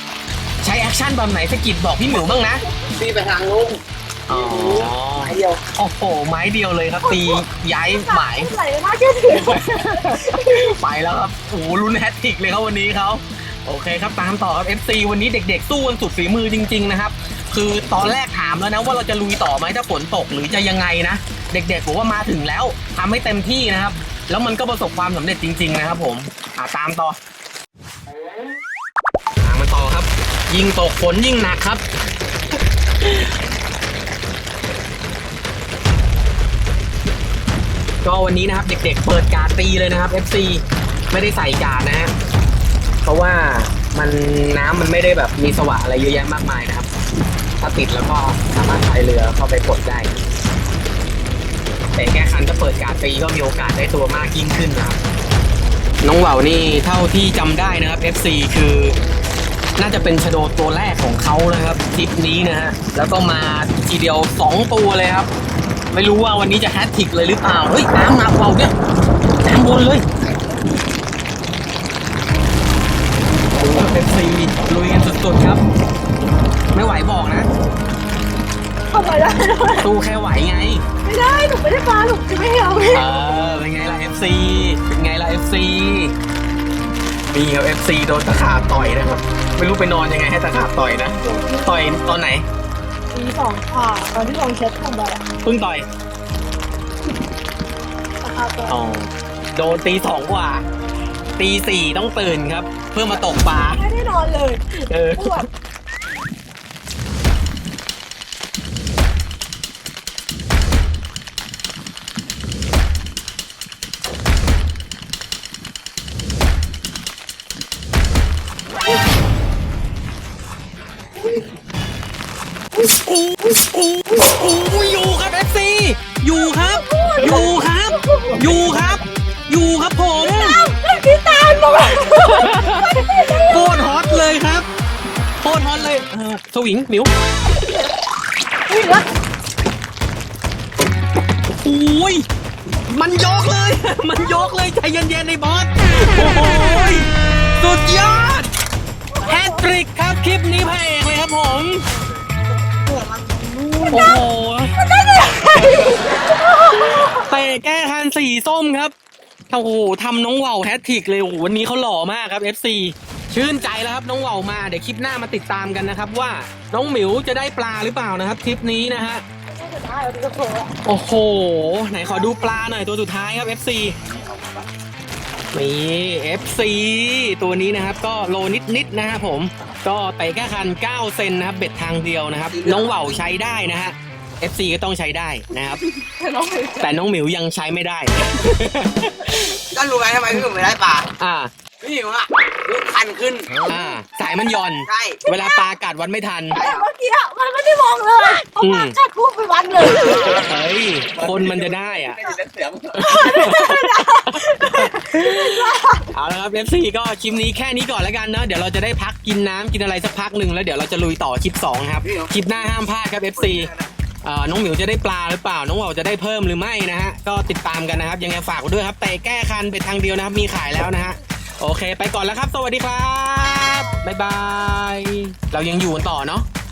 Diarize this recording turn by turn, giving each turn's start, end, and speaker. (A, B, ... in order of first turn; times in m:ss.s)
0:00.6-0:02.6 A
0:02.8-0:05.6 B
0:04.3-0:08.5 A
0:07.0-0:10.4 C
0:09.3-0:27.2 A
0:29.4-0:31.8 A
0:38.0-0:42.1 A
0:43.0-0:46.9 A
0:47.6-0:50.1 A
0:51.9-0:55.0 A
0:56.0-0:59.0 A
0:59.8-1:05.3 A
1:05.9-1:08.7 A
1:09.4-1:10.0 A
1:13.5-1:15.6 A
1:16.7-1:17.5 A
1:18.9-1:19.9 C
1:19.8-1:20.8 A
1:21.0-1:23.1 C
1:22.8-1:26.1 A
1:27.3-1:32.4 A
1:31.2-1:31.8 C
1:33.1-1:35.2 C
1:35.4-1:35.8 A
1:38.2-1:38.8 C
1:38.7-1:40.6 A
1:41.4-1:43.8 A
1:43.5-1:45.4 C
1:44.8-1:45.5 A
2:02.8-2:10.6 A
2:06.6-2:08.7 C
2:10.2-2:13.9 C
2:11.8-2:14.7 A
2:15.4-2:17.1 A
2:18.7-2:19.0 C
2:21.6-2:22.2 A
2:22.9-2:28.5 A
2:29.1-2:29.6 C
2:29.2-2:31.8 A
2:32.7-2:34.1 B
2:33.9-2:34.8 A
2:34.8-2:37.3 C
2:35.4-2:36.0 A
2:36.9-2:38.9 A
2:39.5-2:49.2 A
2:49.5-2:50.8 C
2:50.8-2:53.9 A
2:52.0-2:52.4 C
2:55.5-3:05.8 A
3:02.5-3:03.1 B
3:05.9-3:07.0 C
3:06.8-3:09.6 A
3:09.4-3:11.1 B
3:11.2-3:11.5 A
3:11.8-3:13.6 B
3:13.6-3:16.6 A
3:14.8-3:15.2 B
3:15.2-3:15.7 C
3:16.5-3:16.8 B
3:16.5-3:20.4 C
3:18.6-3:19.0 A
3:20.2-3:22.3 A
3:21.2-3:23.1 B
3:22.9-3:33.7 A
3:22.9-3:26.1 C
3:32.0-3:32.7 B
3:33.4-3:33.9 B
3:34.2-3:46.4 A
3:43.4-3:44.0 C